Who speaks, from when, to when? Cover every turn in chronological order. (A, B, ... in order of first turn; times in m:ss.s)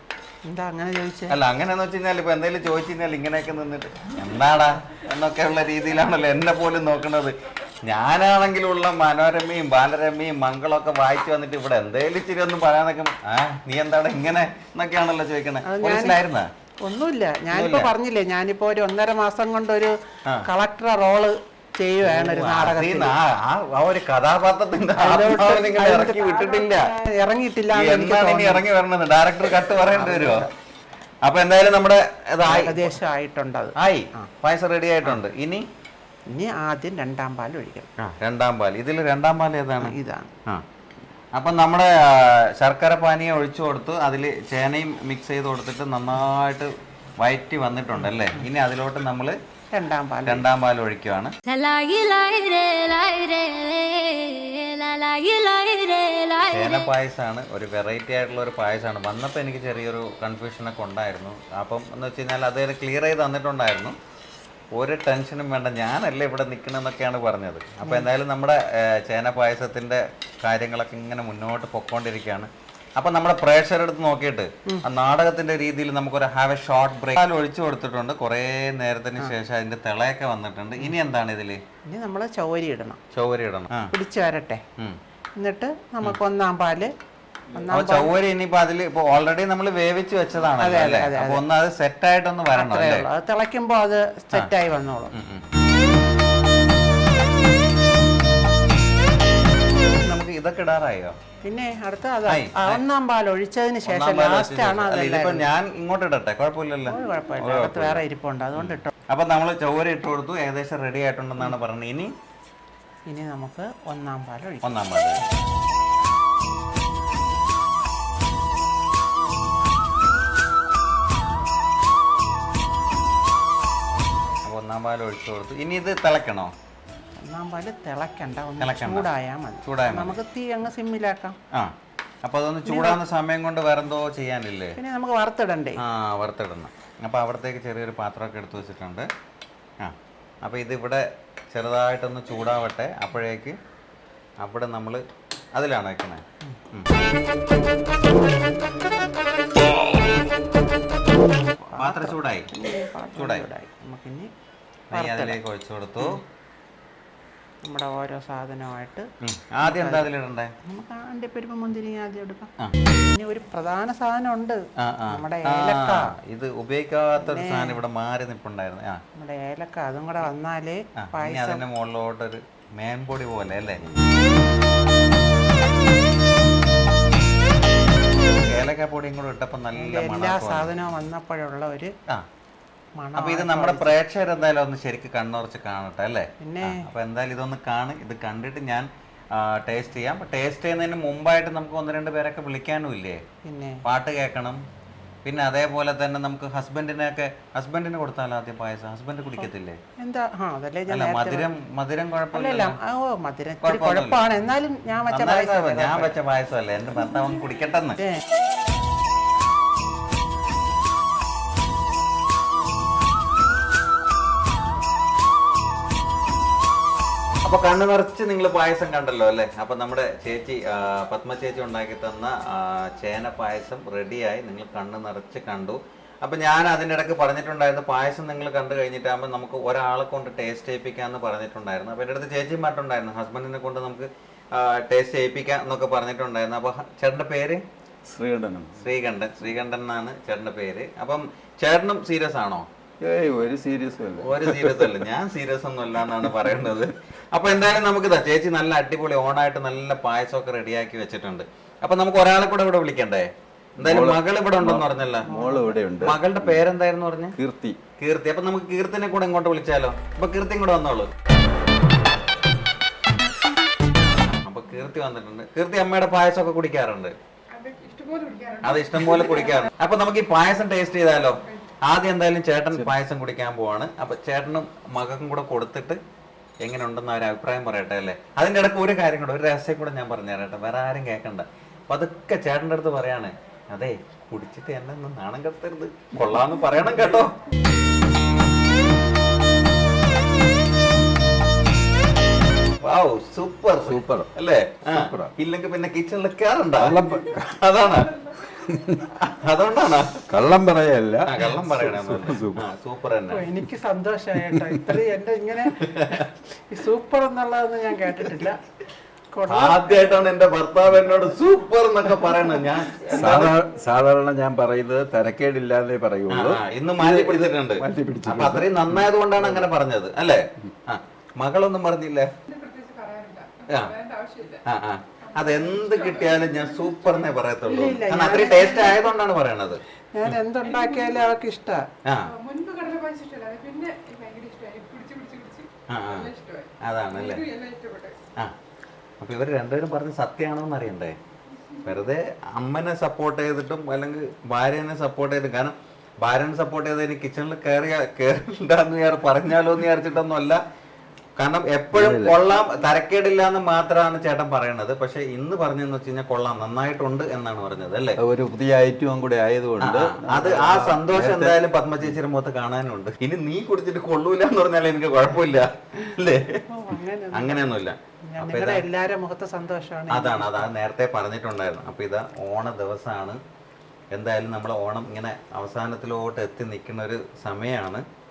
0:00.5-0:01.4 A
0:01.3-0:16.5 B
0:15.6-0:16.2 A
0:16.8-0:23.1 A
0:17.5-0:17.9 B
0:22.0-0:26.9 B
0:25.0-0:28.6 A
0:27.7-0:30.5 B
0:29.9-0:30.5 A
0:31.2-0:32.9 B
0:32.4-0:34.3 A
0:33.8-0:35.6 B
0:36.3-0:37.9 A
0:38.0-0:40.6 B
0:39.8-0:40.3 A
0:41.3-0:49.4 B
0:48.0-0:48.4 A
0:49.7-0:50.4 A
0:50.2-0:51.3 B
0:51.4-0:56.9 C
0:56.5-1:04.0 B
1:04.7-1:21.6 B
1:21.9-1:23.0 A
1:23.1-1:23.9 B
1:23.9-1:24.6 A
1:25.4-1:26.9 A
1:27.5-1:28.1 A
1:27.7-1:33.1 B
1:30.6-1:31.4 A
1:32.5-1:35.1 A
1:35.1-1:35.5 B
1:40.0-1:41.2 B
1:41.4-1:45.4 A
1:42.2-1:42.8 B
1:43.9-1:48.0 B
1:46.9-1:48.9 A
1:48.5-1:52.1 B
1:53.1-1:54.8 A
1:54.6-1:55.2 B
2:04.4-2:06.5 B
2:07.2-2:11.4 A
2:08.6-2:09.1 B
2:09.6-2:10.2 B
2:11.5-2:14.8 B
2:12.7-2:13.0 A
2:14.8-2:15.8 A
2:15.8-2:19.1 B
2:19.8-2:23.6 B
2:24.4-2:25.0 B
2:25.5-2:26.9 B
2:31.7-2:34.3 A
2:31.7-2:32.5 B
2:33.2-2:33.5 B
2:34.9-2:36.2 B
2:34.9-2:35.4 A
2:37.6-2:39.1 A
2:39.2-2:40.5 B
2:39.6-2:40.1 A
2:40.6-2:46.1 A
2:44.8-2:49.0 B
2:47.2-2:47.8 A
2:49.2-2:51.6 A
2:51.0-2:53.8 B
2:58.3-3:00.8 B
2:59.7-3:01.9 A
3:03.0-3:03.9 A
3:03.2-3:13.2 B
3:06.4-3:06.9 A
3:13.4-3:13.8 A
3:13.8-3:14.6 B
3:15.2-3:19.8 B
3:20.0-3:21.5 A
3:20.9-3:22.8 B
3:22.3-3:26.1 A
3:23.6-3:24.2 B
3:25.1-3:28.0 B
3:37.4-3:57.6 B
3:58.0-3:58.9 D
3:58.8-4:02.7 B
4:03.0-4:05.0 D
4:04.2-4:15.3 B
4:13.8-4:16.6 D
4:15.2-4:15.7 A
4:16.0-4:17.4 B
4:17.3-4:17.8 D
4:18.0-4:21.1 B
4:24.2-4:27.2 B
4:27.5-4:29.7 E
4:28.6-4:36.0 B
4:36.6-4:47.3 B
4:52.8-4:58.1 B
4:53.8-4:54.3 D
4:54.9-4:55.3 D
4:56.8-4:57.6 D
4:58.0-4:58.4 E
4:58.6-4:59.1 D
4:59.2-5:00.2 B
5:00.3-5:02.6 D
5:01.3-5:03.5 B
5:03.3-5:08.6 A
5:04.4-5:05.0 D
5:05.8-5:06.3 B
5:09.3-5:10.2 A
5:09.5-5:13.6 B
5:13.0-5:19.7 D
5:16.3-5:22.3 B
5:22.5-5:24.6 E
5:24.6-5:30.4 B
5:25.2-5:27.3 E
5:27.6-5:29.0 A
5:30.1-5:31.8 A
5:30.6-5:31.3 E
5:32.2-5:38.1 E
5:35.9-5:36.3 B
5:36.8-5:37.4 B
5:39.2-5:41.2 B
5:41.8-5:50.6 B
5:51.4-5:58.2 B
5:51.9-5:52.3 D
5:58.2-6:02.1 D
5:59.8-6:06.6 B
6:06.7-6:07.7 A
6:07.3-6:08.9 B
6:08.3-6:10.7 A
6:10.1-6:13.4 B
6:14.1-6:18.0 B